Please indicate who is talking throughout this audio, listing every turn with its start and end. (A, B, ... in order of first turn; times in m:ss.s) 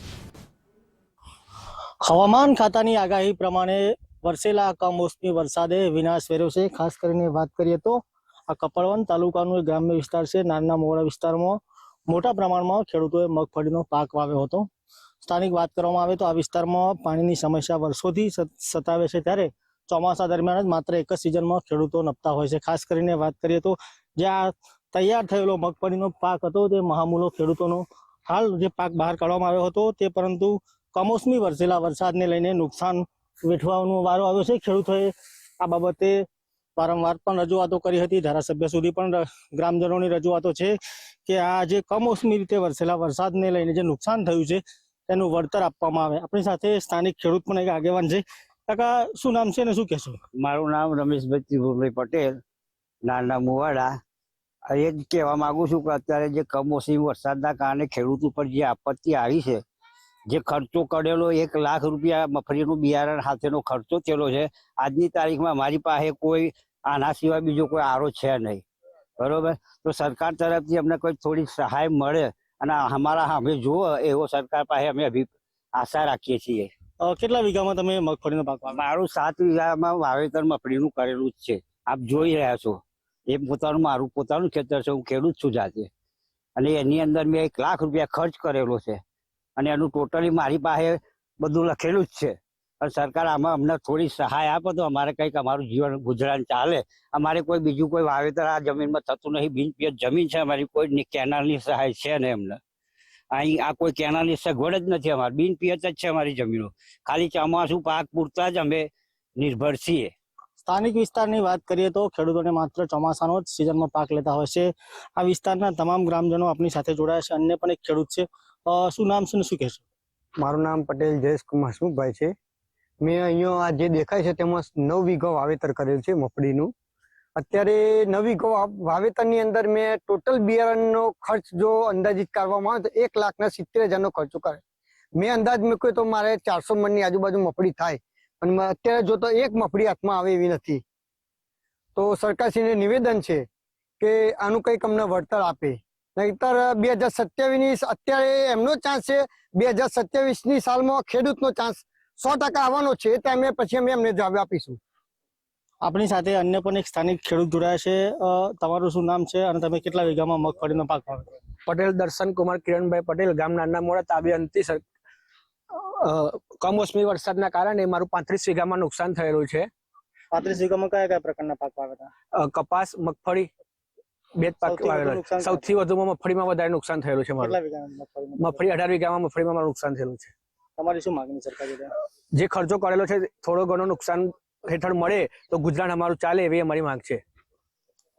0:02.0-0:14.7 A
0:15.2-0:36.2 A
0:36.8-0:50.2 A
0:50.4-0:52.4 B
0:53.0-0:54.0 B
0:54.7-0:59.6 B
1:00.3-1:08.6 B
1:09.2-1:16.7 B
1:17.0-1:18.8 A
1:18.7-1:25.9 B
1:26.6-1:29.0 B
1:29.6-1:42.6 B
1:43.3-1:50.1 B
1:50.6-1:59.8 A
2:00.4-2:02.3 C
2:03.0-2:06.7 C
2:07.4-2:14.6 C
2:15.2-2:20.8 C
2:22.0-2:23.4 C
2:24.0-2:34.8 C
2:35.8-2:41.3 A
2:41.7-2:44.8 D
2:45.7-2:49.7 D
2:50.3-2:52.1 A
2:52.4-2:53.5 D
2:54.4-2:57.5 D
2:54.6-2:55.8 A
2:57.4-2:58.7 A
2:58.4-3:00.3 D
3:00.8-3:01.9 A
3:02.3-3:07.2 D